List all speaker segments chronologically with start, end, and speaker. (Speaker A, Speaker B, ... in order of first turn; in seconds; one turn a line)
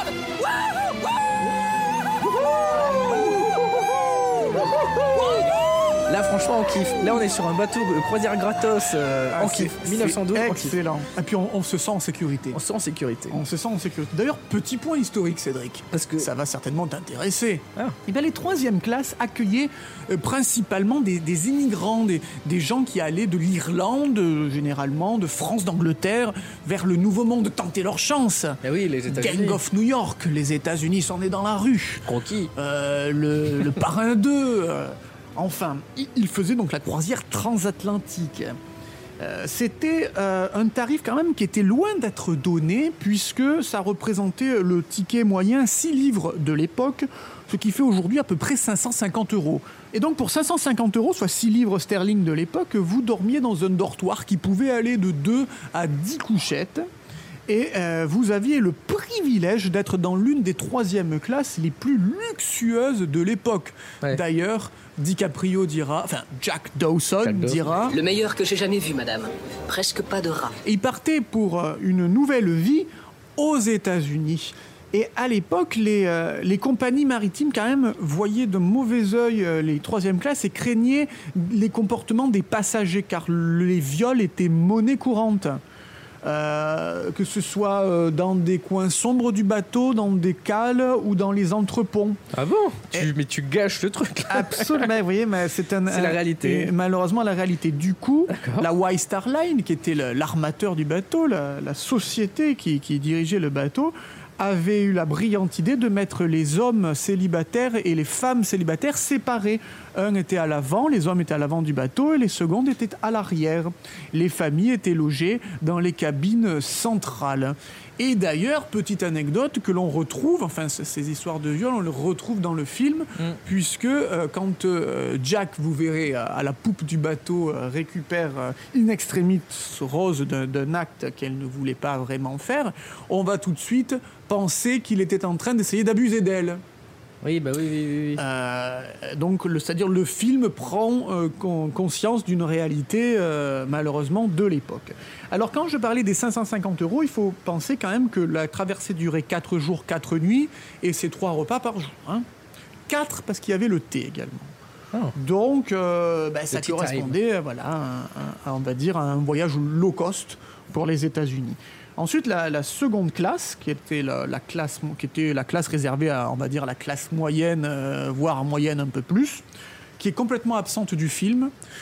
Speaker A: 2.5-3.5
Speaker A: 4.4-5.4
Speaker B: 6.1-10.8
Speaker A: 9.3-12.6
Speaker B: 12.5-13.4
Speaker A: 13.3-38.6
Speaker B: 15.9-16.3
Speaker B: 28.6-29.6
Speaker B: 32.1-32.5
Speaker A: 39.2-56.9
Speaker A: 57.5-68.0
Speaker B: 67.2-67.8
Speaker C: 67.9-70.6
Speaker A: 70.6-85.6
Speaker A: 86.2-92.2
Speaker B: 92.3-94.9
Speaker A: 94.3-136.6
Speaker B: 95.9-96.7
Speaker B: 98.3-98.7
Speaker B: 137.2-138.2
Speaker A: 138.2-152.2
Speaker A: 152.9-154.5
Speaker A: 155.2-169.4
Speaker B: 156.5-157.2
Speaker A: 170.0-171.5